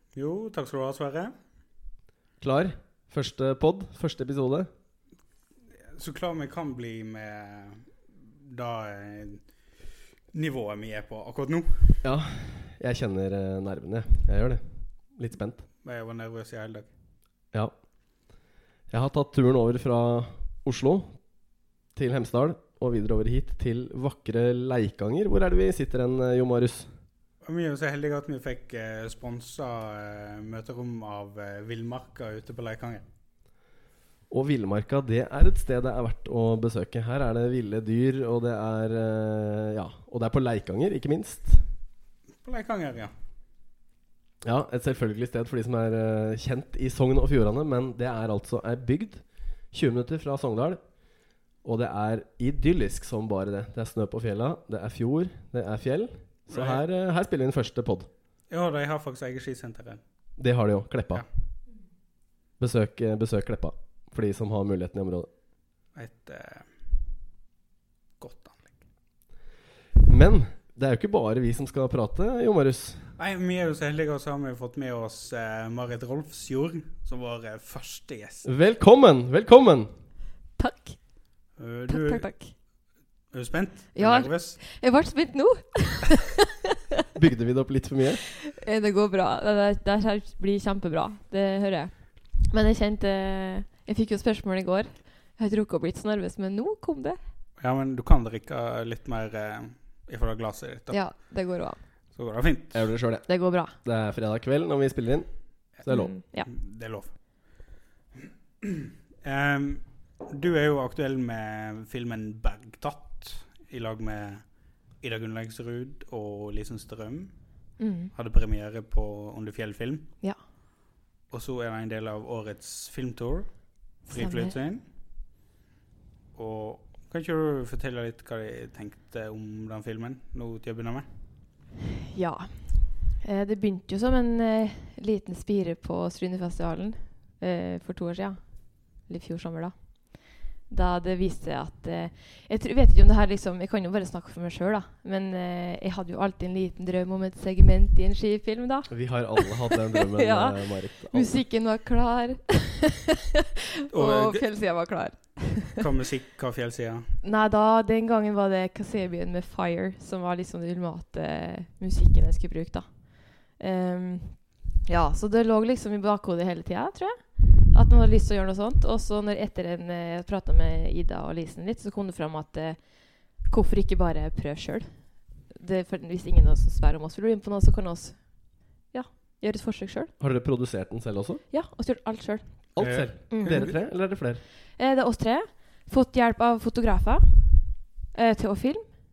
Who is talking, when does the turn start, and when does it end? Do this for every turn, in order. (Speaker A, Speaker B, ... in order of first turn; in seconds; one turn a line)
Speaker A: 0.1-1.3
Speaker B: 2.4-4.7
Speaker A: 5.9-9.5
Speaker A: 10.3-12.0
Speaker B: 12.0-15.6
Speaker A: 15.8-16.9
Speaker B: 18.9-21.2
Speaker B: 21.9-26.9
Speaker A: 27.4-33.0
Speaker B: 34.3-41.7
Speaker A: 42.4-43.1
Speaker B: 44.4-50.8
Speaker B: 51.6-58.1
Speaker A: 56.5-56.8
Speaker A: 58.5-60.0
Speaker B: 60.4-61.2
Speaker B: 62.6-65.3
Speaker A: 66.0-66.7
Speaker A: 68.2-68.8
Speaker B: 70.0-73.1
Speaker A: 73.2-78.5
Speaker B: 78.5-79.9
Speaker C: 80.6-81.0
Speaker A: 81.6-82.3
Speaker C: 81.9-82.5
Speaker A: 83.3-84.6
Speaker C: 84.0-86.5
Speaker B: 87.2-88.2
Speaker C: 88.4-97.2
Speaker A: 97.6-101.1
Speaker C: 100.9-101.8
Speaker A: 102.2-102.9
Speaker B: 102.7-106.1
Speaker C: 103.3-103.8
Speaker C: 105.9-106.5
Speaker A: 106.4-107.2
Speaker A: 108.6-117.3
Speaker C: 117.8-118.1
Speaker A: 118.1-120.1
Speaker A: 121.3-123.5
Speaker A: 124.0-124.8
Speaker C: 124.1-124.5
Speaker A: 126.3-131.1
Speaker C: 132.1-153.0
Speaker B: 148.9-151.4
Speaker C: 153.9-155.8
Speaker A: 153.9-154.4
Speaker A: 155.7-157.1
Speaker C: 157.2-180.1
Speaker B: 180.2-181.4
Speaker C: 181.5-182.7
Speaker B: 182.8-184.4
Speaker A: 182.8-183.8
Speaker C: 183.3-183.7
Speaker C: 184.8-187.5
Speaker C: 188.1-188.9